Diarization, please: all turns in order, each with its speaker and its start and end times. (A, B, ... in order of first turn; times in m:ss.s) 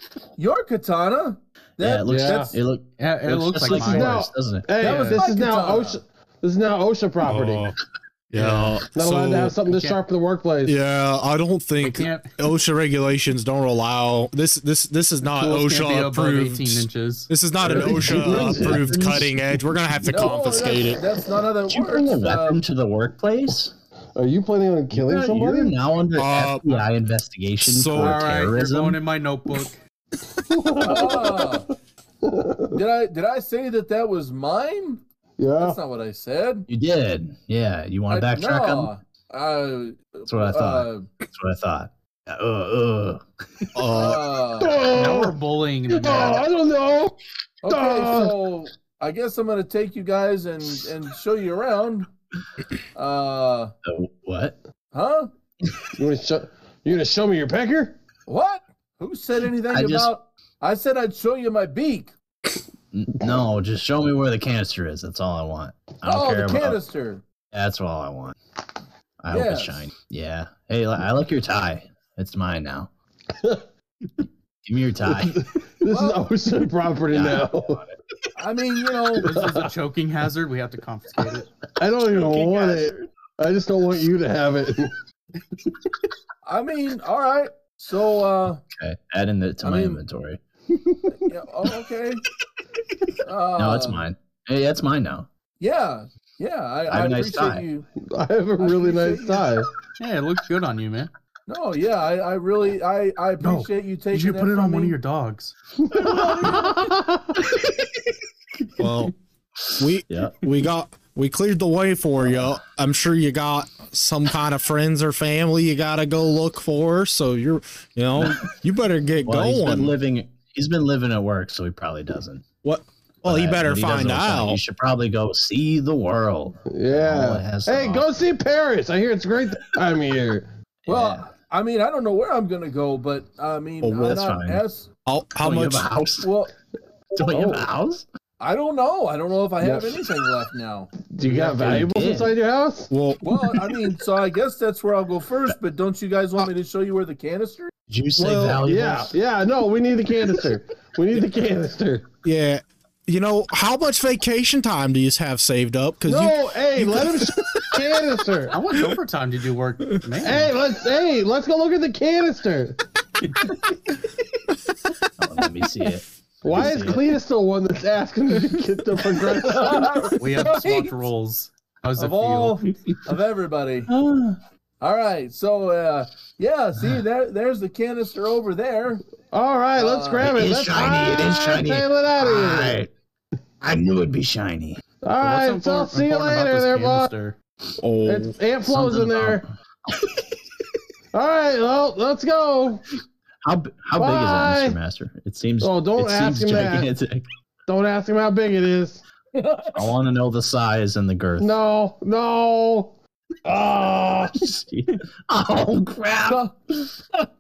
0:00.4-0:02.6 A
0:01.8-0:04.7 B
0:02.1-0:02.5 C
0:03.0-0:04.2 D
0:03.6-0:07.7 C
0:04.8-0:05.2 D
0:04.8-0:06.0 A
0:07.2-0:07.8 E
0:08.3-0:09.6 E
0:08.4-0:08.8 D
0:08.9-0:10.8 C
0:09.7-0:10.0 D
0:10.6-0:21.1 E
0:11.8-0:12.3 D
0:15.2-0:17.3 D
0:17.6-0:19.6 B
0:17.7-0:18.9 C
0:20.1-0:22.6 A
0:21.7-0:23.7 B
0:24.2-0:25.8 C
0:24.9-0:29.0 B
0:26.2-0:26.9 E
0:27.6-0:28.3 E
0:28.0-0:29.8 D
0:30.5-0:31.6 C
0:30.8-0:31.7 A
0:32.2-0:32.8 C
0:32.7-0:35.0 A
0:35.4-0:35.8 C
0:35.6-0:36.7 A
0:36.7-0:38.9 B
0:38.1-0:41.1 A
0:40.3-0:43.7 B
0:43.8-0:44.3 E
0:43.9-0:44.8 A
0:44.6-0:48.3 C
0:44.9-0:46.5 D
0:47.6-0:52.1 A
0:53.0-0:53.7 A
0:53.8-0:54.6 B
0:54.9-0:55.3 A
0:56.0-0:58.0 C
0:58.3-1:02.1 A
0:59.7-1:00.1 B
1:02.9-1:06.8 B
1:06.0-1:07.2 A
1:07.5-1:08.4 B
1:09.2-1:12.9 B
1:09.3-1:09.9 A
1:13.3-1:13.6 C
1:14.6-1:15.4 B
1:15.1-1:17.8 C
1:15.9-1:16.2 A
1:17.1-1:17.9 B
1:18.4-1:19.4 A
1:19.2-1:19.7 C
1:19.2-1:21.5 D
1:21.8-1:24.9 C
1:22.0-1:23.1 B
1:26.4-1:28.6 A
1:28.7-1:30.4 B
1:29.6-1:30.0 A
1:31.1-1:32.2 A
1:33.2-1:34.1 A
1:33.6-1:35.3 B
1:35.6-1:37.8 A
1:36.9-1:37.6 B
1:38.0-1:39.7 C
1:38.6-1:39.5 A
1:40.0-1:41.1 D
1:41.5-1:45.0 A
1:43.4-1:45.5 D
1:45.8-1:47.4 C
1:46.0-1:46.6 A
1:46.4-1:46.8 D
1:48.8-1:49.1 E
1:49.8-2:00.0 E
1:50.1-1:50.4 B
1:52.2-1:52.5 B
1:59.2-2:02.5 B
2:02.6-2:04.6 E
2:03.2-2:08.2 B
2:06.7-2:10.5 C
2:10.9-2:11.3 B
2:10.9-2:14.9 A
2:13.8-2:14.1 E
2:14.0-2:14.6 B
2:15.1-2:15.9 E
2:15.4-2:16.3 B
2:16.2-2:16.5 A
2:17.1-2:18.0 B
2:17.2-2:17.7 C
2:18.4-2:20.9 A
2:19.6-2:20.0 C
2:21.0-2:22.9 C
2:21.2-2:22.3 B
2:22.9-2:23.2 E
2:23.2-2:27.7 A
2:27.9-2:29.2 B
2:28.2-2:28.6 E
2:28.4-2:32.1 C
2:32.2-2:37.7 E
2:36.1-2:38.6 C
2:38.5-2:40.5 D
2:40.2-2:42.8 C
2:45.2-2:47.0 B
2:46.4-2:50.2 C
2:49.5-2:51.0 A
2:50.2-2:53.0 D
2:52.0-2:53.9 A
2:53.9-2:54.4 B
2:54.8-2:59.0 A
2:59.3-3:02.8 C
2:59.8-3:00.3 A
3:00.2-3:02.9 B
3:03.6-3:04.8 B
3:05.0-3:07.1 C
3:05.2-3:07.4 D
3:07.8-3:08.3 E
3:08.1-3:09.4 C
3:08.7-3:09.4 B
3:11.1-3:12.9 C
3:13.4-3:17.2 B
3:14.0-3:14.8 C
3:15.6-3:16.9 C
3:17.7-3:19.0 C
3:19.4-3:19.9 A
3:19.8-3:21.6 B
3:21.4-3:24.5 C
3:24.2-3:26.4 B
3:26.3-3:26.5 A